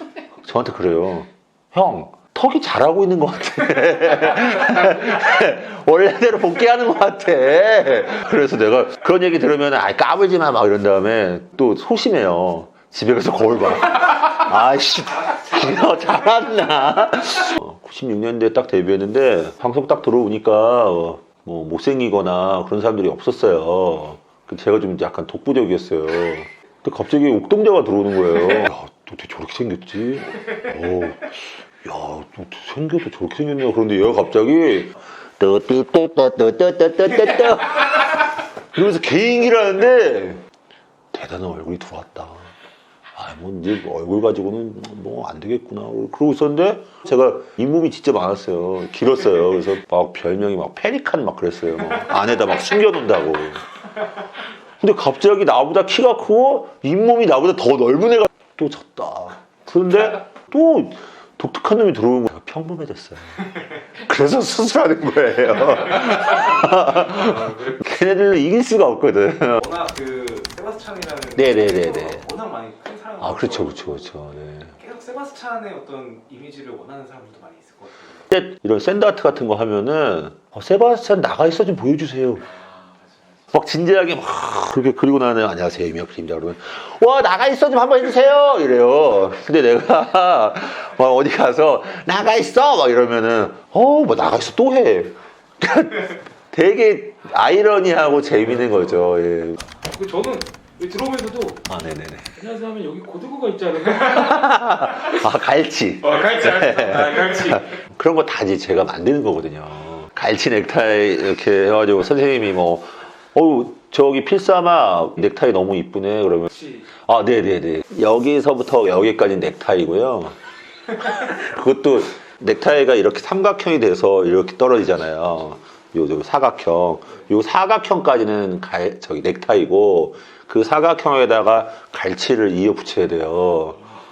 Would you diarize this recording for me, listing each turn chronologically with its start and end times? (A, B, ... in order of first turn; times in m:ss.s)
0:00.4-0:40.4 A
0:41.1-0:42.5 A
0:43.1-0:53.6 A
0:54.8-1:09.6 A
1:09.6-1:13.9 B
1:11.4-1:12.2 A
1:13.2-1:14.7 A
1:14.8-1:18.2 B
1:18.3-1:22.5 A
1:23.5-1:39.6 A
1:39.9-1:41.6 C
1:41.7-1:42.3 A
1:42.3-1:44.5 C
1:44.0-2:00.4 A
2:01.0-2:13.8 A